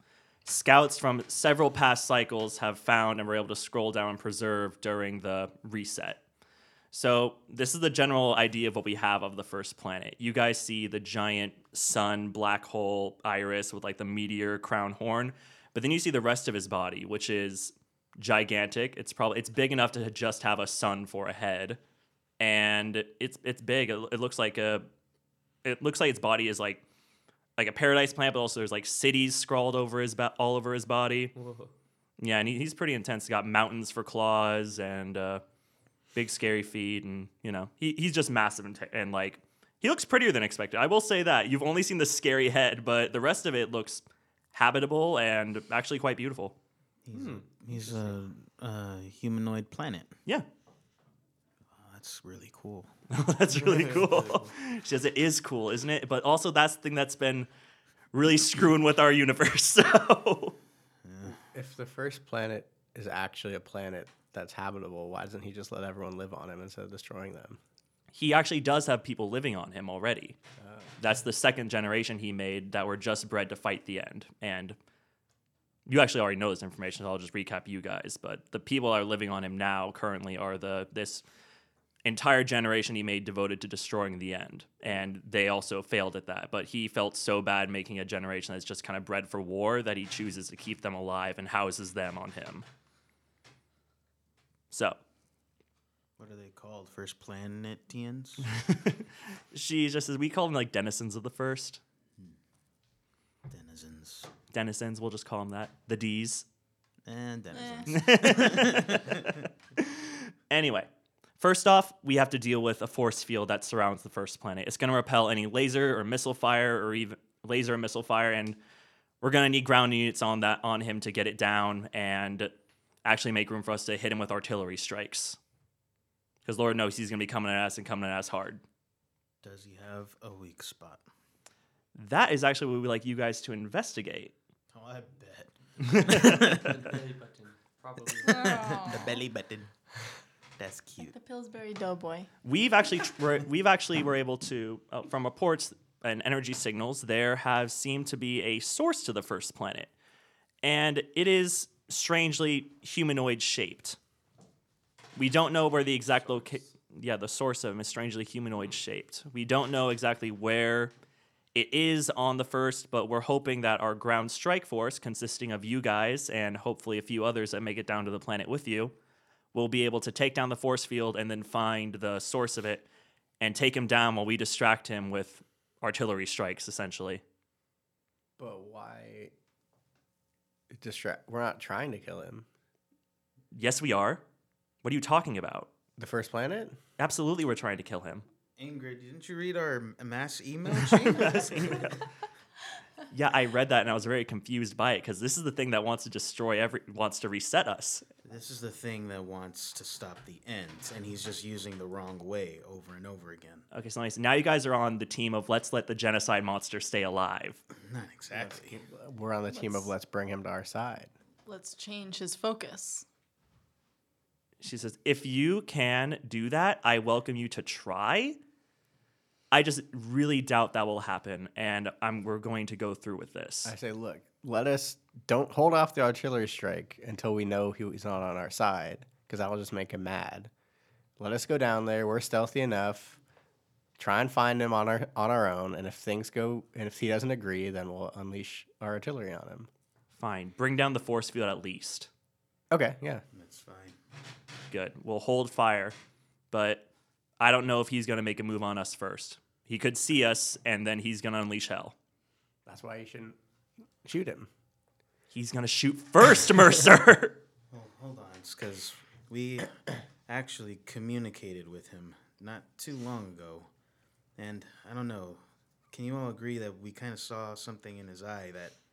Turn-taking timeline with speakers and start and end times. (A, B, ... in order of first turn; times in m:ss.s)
0:00.4-0:06.2 A
0:06.9-0:21.8 A
0:22.4-0:24.9 A
0:25.6-0:26.8 A
0:27.6-0:31.4 A
0:31.4-0:31.7 B
0:32.2-0:35.4 A
0:36.2-0:46.6 A
0:47.0-0:50.1 C
0:47.2-0:47.4 B
0:51.8-0:52.9 C
0:53.1-0:57.5 A
0:53.6-0:54.5 B
0:58.1-1:00.6 A
1:01.0-1:01.4 C
1:01.5-1:07.6 D
1:08.1-1:10.4 A
1:10.6-1:10.9 D
1:11.0-1:14.8 A
1:15.9-1:21.2 A
1:22.0-1:32.6 A
1:34.7-1:35.0 A
1:36.2-1:38.5 C
1:38.6-1:41.8 A
1:43.5-1:44.3 C
1:44.5-1:46.4 A
1:47.0-1:49.3 C
1:47.5-1:48.0 E
1:47.9-1:50.9 A
1:51.4-1:58.6 A
1:59.2-2:02.5 A
2:03.0-2:05.4 A
2:06.4-2:08.6 A
2:09.4-2:11.0 C
2:12.0-2:14.3 A
2:14.7-2:16.8 C
2:15.8-2:16.7 A
2:16.3-2:18.8 B
2:18.2-2:19.2 E
2:18.3-2:19.7 C
2:20.6-2:21.1 C
2:21.0-2:22.3 E
2:22.4-2:29.9 A
2:30.6-2:34.0 A
2:35.2-2:40.9 A
2:41.5-2:48.9 A
2:49.5-2:52.9 A
2:53.4-2:57.2 A
2:58.4-2:59.3 D
3:00.7-3:02.4 D
3:03.5-3:04.2 A
3:04.8-3:05.7 A
3:06.0-3:06.8 D
3:07.0-3:08.3 A
3:08.6-3:11.9 C
3:10.8-3:12.0 A
3:13.1-3:18.0 A
3:18.2-3:23.6 C
3:23.7-3:27.6 A
3:27.7-3:28.8 C
3:28.3-3:31.1 D
3:29.5-3:29.9 E
3:31.5-3:33.1 E
3:34.6-3:38.4 A
3:39.5-3:43.7 A
3:43.6-3:50.5 D
3:51.2-3:53.2 D
3:54.0-3:59.7 D
4:00.1-4:02.1 A
4:02.7-4:03.2 D
4:03.3-4:04.0 C
4:04.7-4:06.0 A
4:06.5-4:06.9 A
4:07.4-4:12.0 A
4:12.7-4:13.4 D
4:14.0-4:14.5 D
4:15.3-4:17.4 A
4:17.7-4:23.7 C
4:24.4-4:28.8 C